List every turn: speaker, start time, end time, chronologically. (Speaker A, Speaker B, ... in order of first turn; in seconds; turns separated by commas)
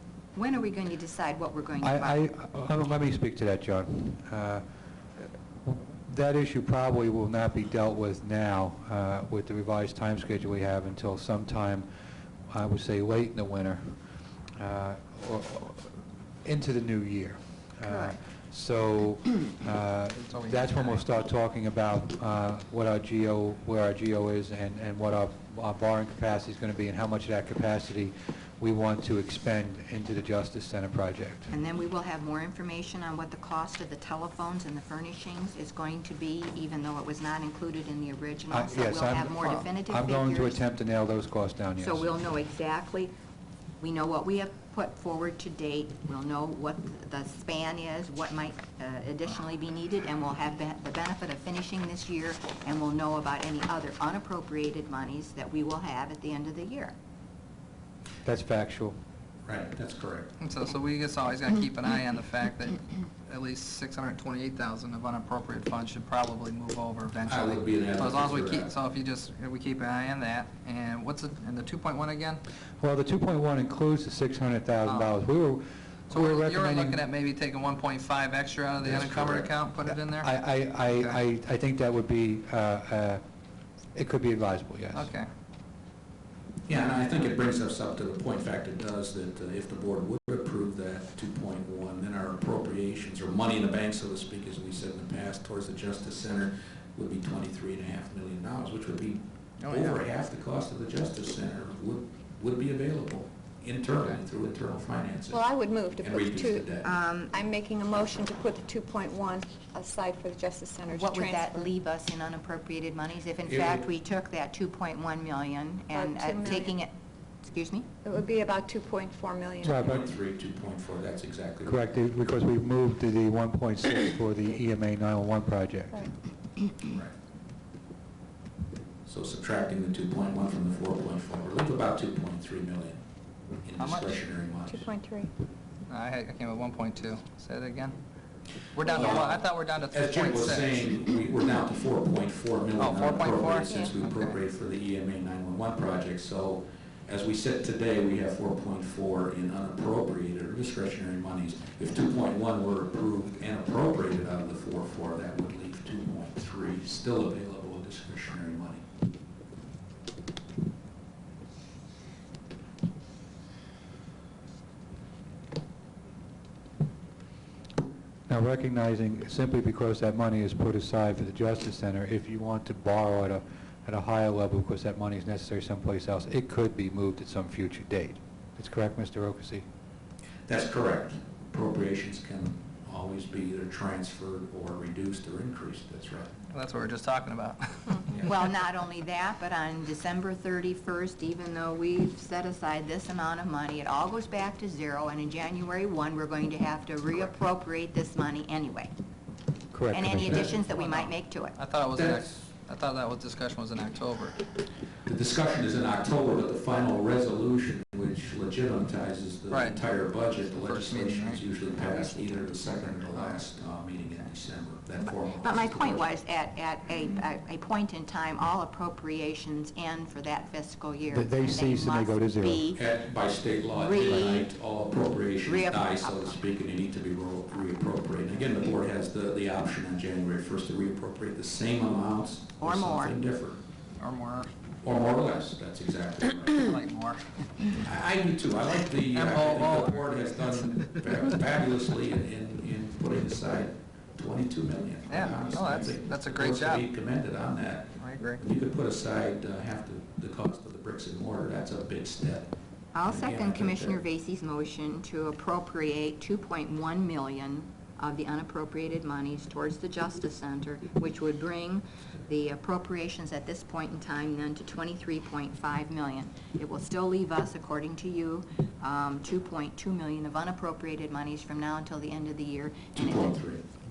Speaker A: 0.3-2.2, Speaker B: 1.8-4.6, Speaker B: 5.2-11.9, Speaker B: 12.5-14.0, Speaker B: 14.6-31.5, Speaker C: 20.3-21.1, Speaker A: 31.5-40.6, Speaker B: 38.5-42.1, Speaker A: 41.8-43.1, Speaker A: 43.8-57.0, Speaker B: 58.2-59.0, Speaker D: 59.5-60.3, Speaker C: 60.4-72.4, Speaker D: 67.2-68.7, Speaker B: 72.8-77.0, Speaker C: 74.8-75.2, Speaker C: 76.1-81.2, Speaker D: 78.8-79.5, Speaker B: 80.1-83.2, Speaker B: 83.9-85.1, Speaker C: 84.9-85.3, Speaker D: 86.7-105.4, Speaker C: 99.6-100.0, Speaker E: 105.3-106.8, Speaker D: 106.0-106.9, Speaker A: 106.8-107.3, Speaker E: 107.3-111.7, Speaker A: 110.9-116.9, Speaker D: 113.5-113.9, Speaker E: 115.9-116.7, Speaker A: 117.4-117.8, Speaker E: 118.0-119.8, Speaker B: 119.6-120.1, Speaker D: 119.6-121.8, Speaker B: 121.6-126.1, Speaker D: 126.8-127.1, Speaker D: 129.1-133.0, Speaker D: 133.6-134.9, Speaker C: 133.8-134.2, Speaker E: 134.7-135.3, Speaker C: 135.9-138.0, Speaker C: 138.7-141.1, Speaker D: 138.9-158.8, Speaker C: 142.8-144.3, Speaker B: 168.3-179.6, Speaker D: 180.5-186.3, Speaker C: 186.5-188.2, Speaker A: 188.2-198.9, Speaker B: 199.7-200.5, Speaker A: 199.9-201.6, Speaker C: 200.7-204.3, Speaker D: 201.9-202.3, Speaker D: 205.0-216.0, Speaker C: 209.5-209.8, Speaker C: 210.5-211.4, Speaker C: 213.1-213.4, Speaker A: 215.0-222.8, Speaker B: 221.1-222.7, Speaker D: 222.7-233.6, Speaker A: 223.7-224.5, Speaker B: 224.0-224.3, Speaker A: 225.4-226.4, Speaker A: 232.6-233.2, Speaker C: 234.0-234.5, Speaker D: 234.8-236.7, Speaker C: 236.6-237.3, Speaker D: 237.8-252.5, Speaker C: 239.1-240.2, Speaker C: 245.1-246.8, Speaker C: 248.0-248.4, Speaker A: 252.9-273.4, Speaker D: 253.0-254.0, Speaker D: 272.9-273.6